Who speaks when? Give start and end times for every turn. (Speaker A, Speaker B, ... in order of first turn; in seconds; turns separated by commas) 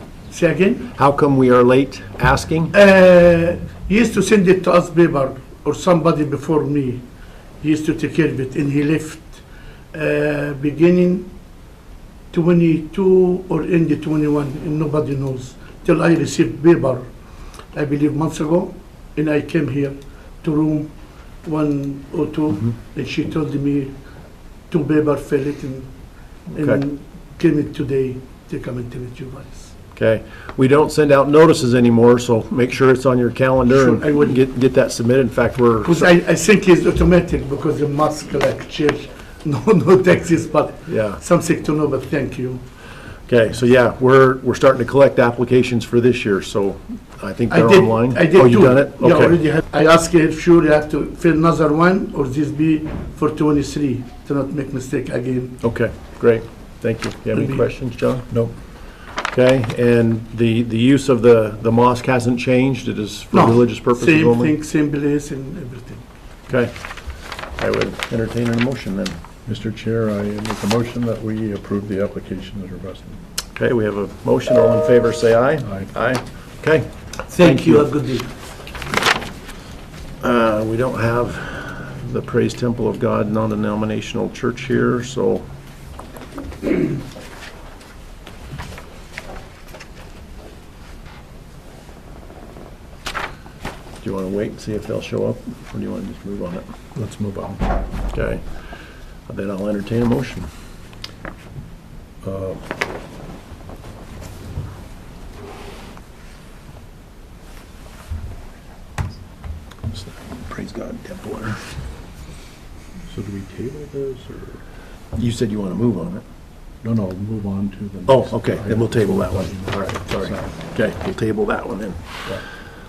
Speaker A: 0.3-0.9, Speaker B: 0.9-2.7, Speaker A: 2.7-7.0, Speaker A: 7.6-11.3, Speaker A: 12.3-17.1, Speaker A: 17.7-20.9, Speaker A: 21.4-23.9, Speaker A: 24.7-25.9, Speaker B: 26.5-26.8, Speaker A: 26.5-29.7, Speaker B: 29.9-36.1, Speaker A: 33.7-34.4, Speaker A: 35.8-42.6, Speaker B: 40.9-41.2, Speaker B: 43.3-49.4, Speaker A: 47.5-55.6, Speaker B: 55.6-58.3, Speaker A: 57.3-57.6, Speaker B: 59.0-64.5, Speaker A: 63.3-66.0, Speaker B: 66.5-66.7, Speaker B: 67.5-69.2, Speaker C: 69.5-73.2, Speaker B: 73.5-77.9, Speaker C: 75.6-75.9, Speaker A: 77.3-78.3, Speaker B: 80.2-85.5, Speaker B: 94.0-96.7, Speaker C: 96.9-97.7, Speaker B: 98.1-98.7, Speaker B: 99.3-100.5, Speaker C: 102.2-102.6, Speaker B: 109.9-111.6, Speaker C: 113.0-114.6, Speaker B: 115.2-116.2, Speaker C: 116.8-120.7, Speaker B: 118.1-122.0